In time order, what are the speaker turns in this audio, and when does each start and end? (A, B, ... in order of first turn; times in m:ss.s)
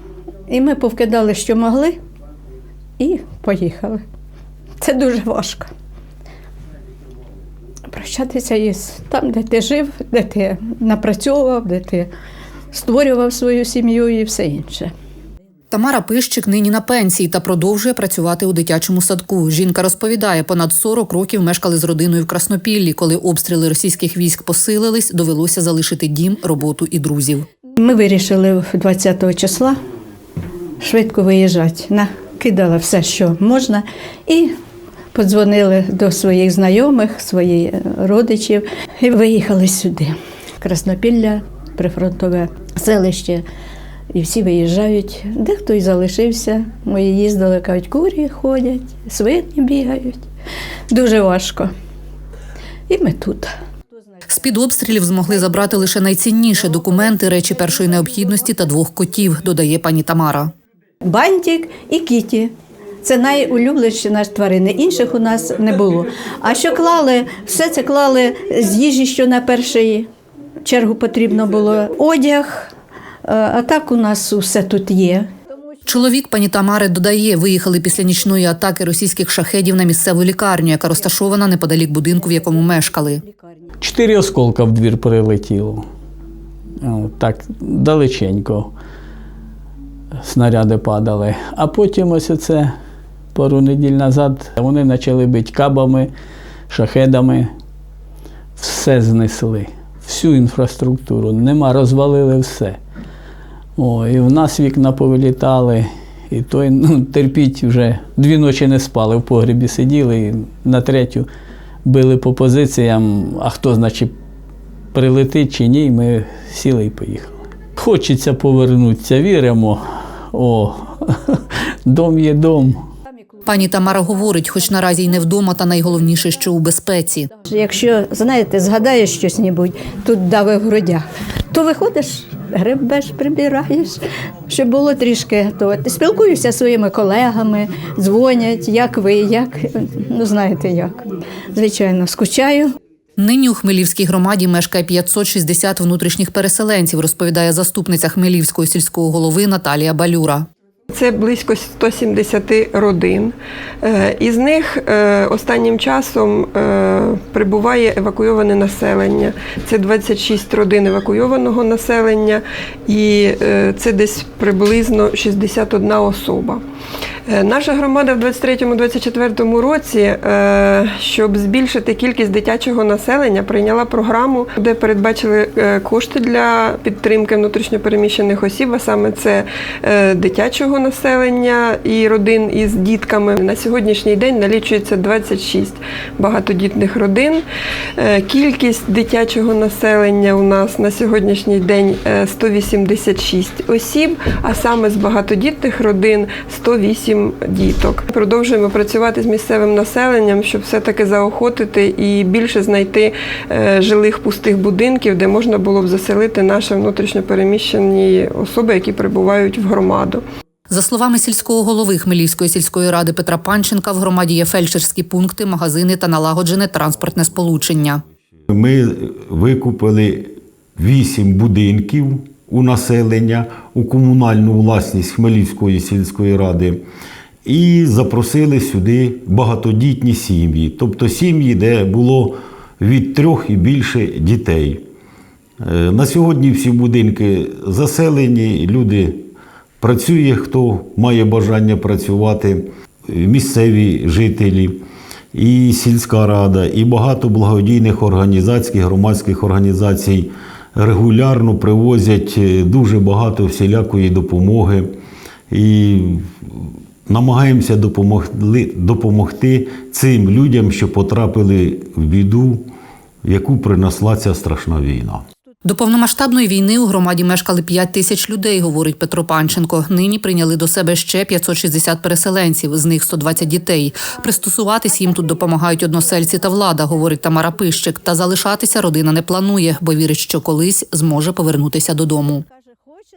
0:00.5-0:02.0 A
0:03.0-0:04.0 A
0:04.8-0:05.7 A
0:07.9-0:12.1 A
0:12.7-0:14.9 A
0:15.7-0:27.4 B
0:27.8-0:29.8 A
0:30.8-0:34.5 A
0:35.1-0:43.4 A
0:44.1-0:50.2 A
0:50.9-0:51.7 A
0:52.9-0:53.5 A
0:54.3-1:00.5 B
1:01.0-1:02.5 A
1:03.0-1:10.1 A
1:10.6-1:12.7 A
1:13.2-1:15.3 A
1:15.9-1:23.2 B
1:23.8-1:25.8 C
1:26.8-1:28.7 C
1:30.2-1:32.7 C
1:33.3-1:36.1 C
1:36.7-1:37.5 C
1:38.6-1:42.8 C
1:43.8-1:51.3 C
1:51.8-1:54.1 C
1:54.9-2:02.8 C
2:03.5-2:07.3 B
2:07.5-2:22.7 A
2:23.2-2:30.5 B
2:30.9-2:46.6 D
2:47.3-3:07.4 D
3:08.0-3:30.2 D
3:30.7-3:38.0 B
3:38.5-3:46.8 E
3:47.4-3:54.8 E
3:55.6-3:59.3 E
3:59.8-4:14.9 E
4:15.5-4:16.3 E
4:17.1-4:22.7 E
4:23.2-4:25.3 E
4:25.6-4:42.5 B